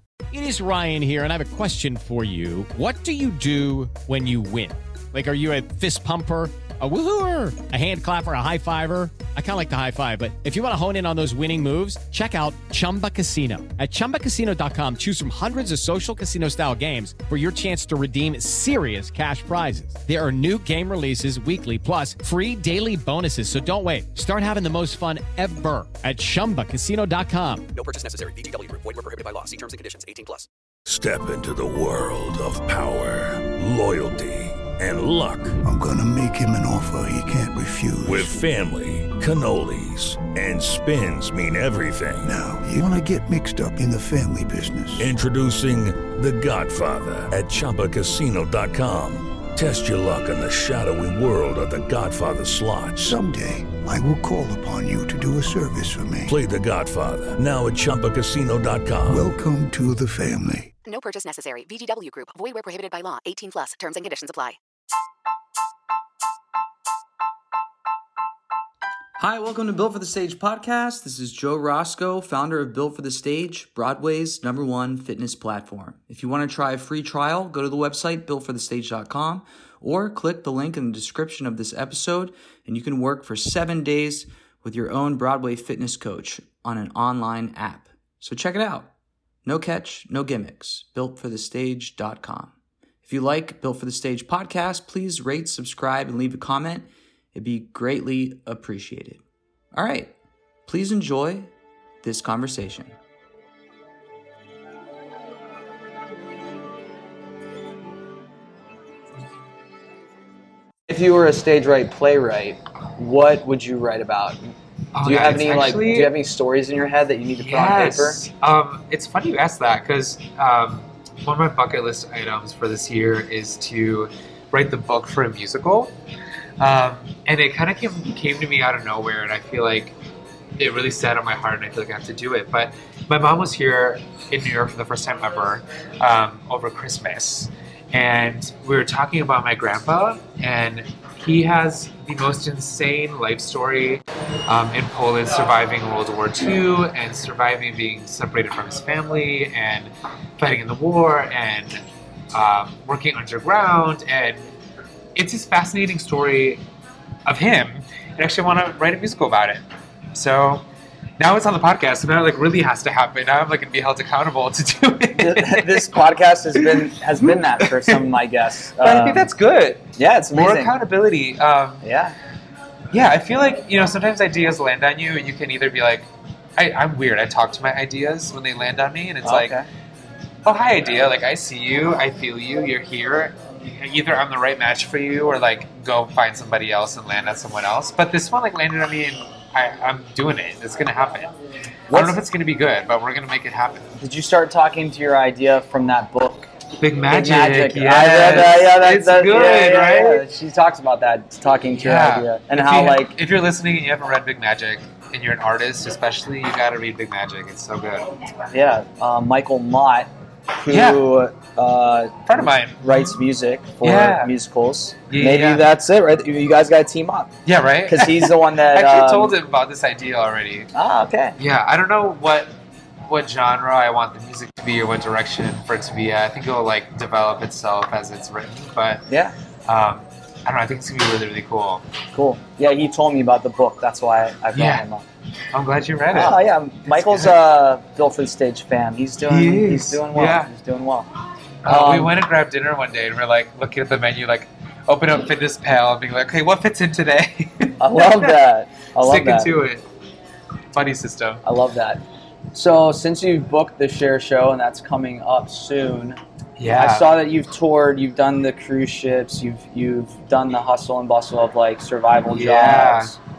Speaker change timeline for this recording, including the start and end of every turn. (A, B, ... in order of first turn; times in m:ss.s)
0:00.3-0:27.6 A
0:27.7-0:30.5 B
0:30.8-0:35.6 C
0:35.6-0:38.4 D
0:38.0-0:42.3 C
0:42.2-0:45.1 D
0:45.0-0:53.2 C
0:53.0-0:56.3 D
0:56.2-0:59.3 C
0:59.1-1:00.7 D
1:00.8-1:04.6 E
1:09.2-1:28.9 F
1:29.4-1:32.5 F
1:33.0-1:39.2 F
1:39.7-1:40.1 F
1:40.7-1:41.5 F
1:42.0-1:43.0 F
1:50.9-1:54.4 F
1:54.9-1:56.1 G
1:55.0-1:58.2 F
1:57.4-2:05.9 G
2:06.6-2:10.0 G
2:10.6-2:34.5 G
2:35.1-2:36.6 G
2:37.2-2:40.6 G
2:41.2-2:46.0 G
2:45.2-2:49.3 F
2:46.5-2:48.0 G
2:48.8-2:51.8 G
2:50.0-2:50.7 F
2:51.8-2:52.2 F
2:52.9-2:59.6 G
2:59.2-2:59.6 F
3:00.4-3:11.3 G
3:11.9-3:12.2 F
3:11.9-3:13.9 G
3:14.0-3:16.5 F
3:16.8-3:20.2 G
3:17.1-3:23.1 F
3:21.7-3:28.2 G
3:28.5-3:32.2 F
3:30.7-3:31.0 G
3:32.2-3:33.2 G
3:32.8-3:37.3 F
3:33.8-3:34.3 G
3:35.1-3:35.6 G
3:37.4-3:40.7 G
3:37.9-3:39.4 F
3:40.7-3:41.4 F
3:41.4-3:42.5 G
3:43.0-3:49.0 G
3:49.1-3:49.3 F
3:49.6-3:51.8 G
3:52.1-3:55.0 F
3:54.5-3:54.8 G
3:55.5-3:57.4 G
3:56.1-4:01.1 F
3:59.3-4:00.5 G
4:01.6-4:08.4 G
4:01.6-4:02.1 F
4:07.8-4:09.5 F
4:09.0-4:09.8 G
4:10.7-4:11.4 G
4:11.4-4:12.0 F
4:12.5-4:23.2 F
4:16.6-4:17.1 G
4:22.3-4:23.1 G